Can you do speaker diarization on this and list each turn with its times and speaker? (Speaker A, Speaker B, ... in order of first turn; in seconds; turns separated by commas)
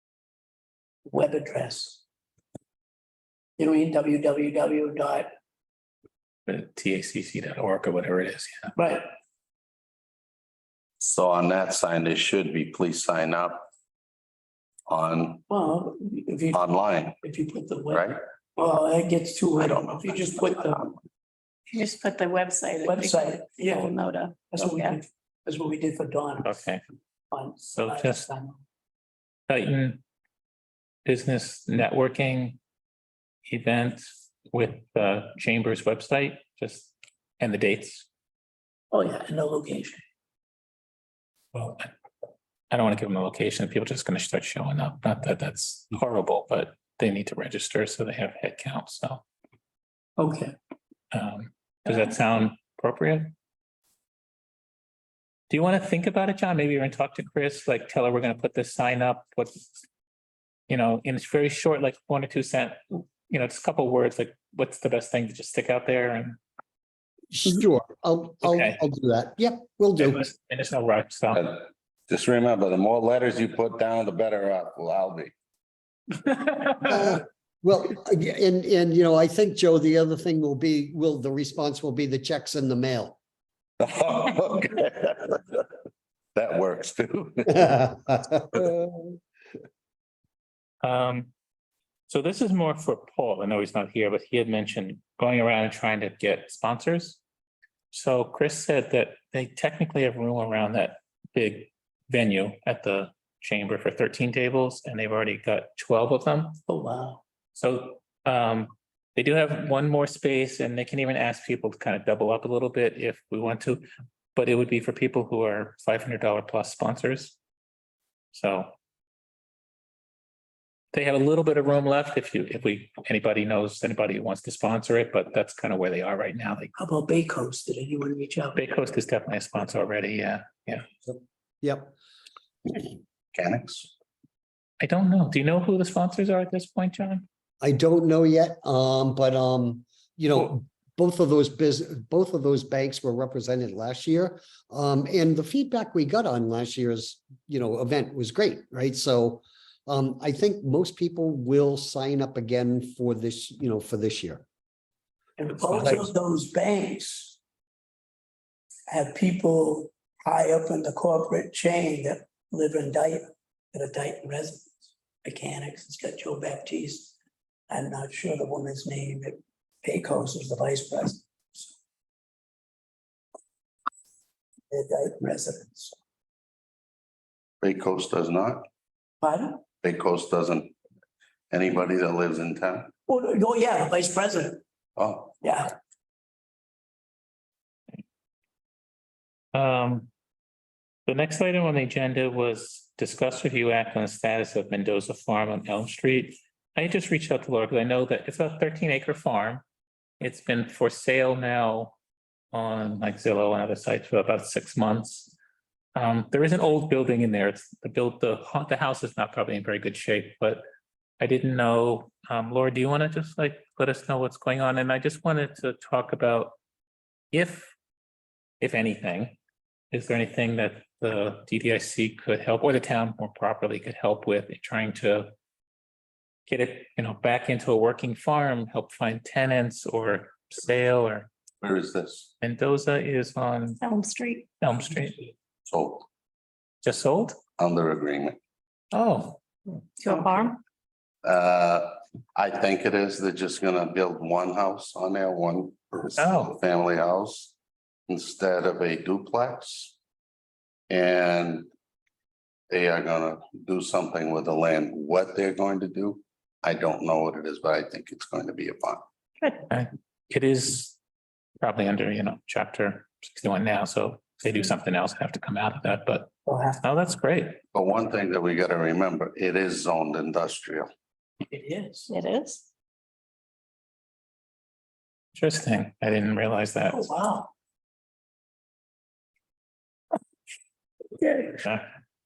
Speaker A: 1.1-2.0, Speaker A: 3.6-5.3, Speaker B: 6.5-8.7, Speaker A: 8.8-9.0, Speaker C: 11.0-13.7, Speaker C: 14.9-15.4, Speaker A: 15.5-16.6, Speaker C: 16.5-17.2, Speaker A: 17.2-20.9, Speaker C: 17.9-18.2, Speaker C: 19.6-21.0, Speaker D: 21.7-25.0, Speaker A: 22.8-23.9, Speaker A: 24.5-26.6, Speaker B: 26.4-26.8, Speaker A: 27.3-28.6, Speaker B: 27.6-28.3, Speaker B: 29.5-30.0, Speaker B: 31.1-32.6, Speaker B: 33.5-38.1, Speaker A: 38.9-40.0, Speaker B: 41.5-41.9, Speaker B: 42.7-49.2, Speaker A: 50.2-50.5, Speaker B: 51.1-53.3, Speaker B: 55.5-59.8, Speaker B: 60.7-66.4, Speaker E: 67.3-70.2, Speaker B: 68.4-68.8, Speaker B: 70.0-71.5, Speaker C: 71.3-75.3, Speaker E: 76.8-83.2, Speaker C: 83.8-85.6, Speaker C: 86.4-87.9, Speaker E: 87.5-89.1, Speaker B: 90.8-91.3, Speaker B: 92.1-97.2, Speaker B: 97.9-106.6, Speaker A: 106.7-107.2, Speaker B: 107.5-117.4, Speaker B: 118.3-118.8, Speaker B: 120.9-126.7, Speaker A: 126.8-128.6, Speaker B: 128.6-130.9, Speaker E: 131.1-131.9, Speaker C: 133.3-133.9, Speaker B: 134.8-137.3, Speaker E: 137.6-154.4, Speaker A: 155.4-157.4, Speaker B: 155.6-156.1, Speaker A: 158.9-167.2, Speaker A: 167.7-171.7, Speaker A: 174.7-176.0, Speaker C: 177.6-178.7, Speaker A: 179.2-179.6, Speaker C: 179.8-180.8, Speaker C: 181.5-182.9, Speaker A: 183.1-184.6, Speaker C: 185.0-185.4, Speaker A: 185.4-185.8, Speaker B: 189.5-190.1, Speaker B: 191.1-199.6, Speaker B: 200.2-202.0, Speaker B: 202.5-205.3, Speaker B: 205.9-210.6, Speaker B: 211.2-216.6, Speaker B: 217.3-217.7, Speaker B: 218.6-219.4, Speaker B: 219.9-225.3, Speaker B: 226.5-231.3, Speaker C: 231.6-232.3, Speaker B: 232.4-233.8, Speaker D: 233.8-234.5, Speaker B: 234.6-235.3, Speaker C: 235.7-236.1, Speaker B: 236.8-237.4, Speaker C: 237.6-238.4, Speaker B: 238.9-239.4, Speaker D: 240.0-240.6, Speaker C: 241.2-247.5, Speaker B: 246.2-246.6, Speaker C: 248.1-249.9, Speaker C: 250.9-251.7, Speaker C: 252.7-259.0, Speaker B: 259.7-261.0, Speaker B: 261.6-267.6, Speaker A: 266.5-266.8, Speaker C: 267.7-270.9, Speaker A: 271.5-272.1, Speaker D: 272.1-272.6, Speaker B: 275.3-277.1, Speaker A: 276.9-277.5